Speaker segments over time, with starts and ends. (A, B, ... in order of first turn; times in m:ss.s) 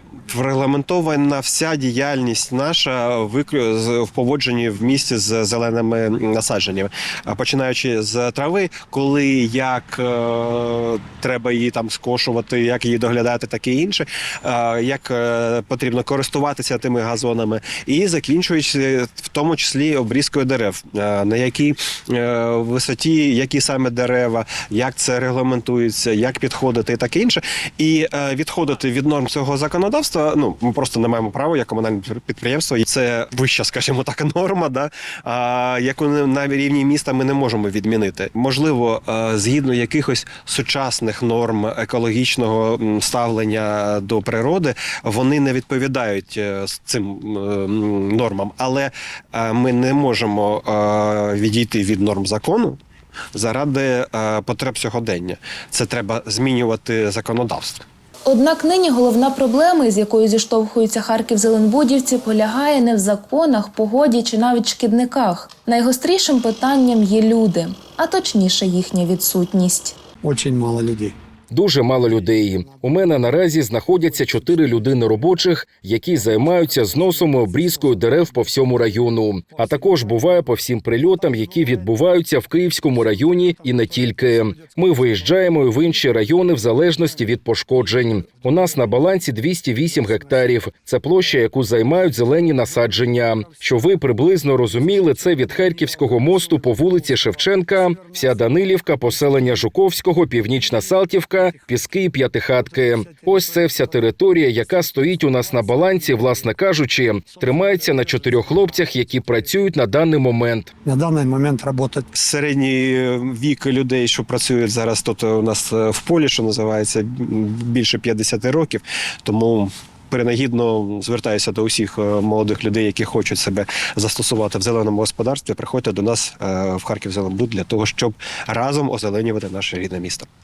0:00.3-0:52.8 A
0:53.3-0:57.8 A
0:58.2-1:10.0 B
1:10.2-1:11.1 C
1:11.5-1:50.7 D
1:50.8-1:52.1 C
1:52.1-2:10.3 A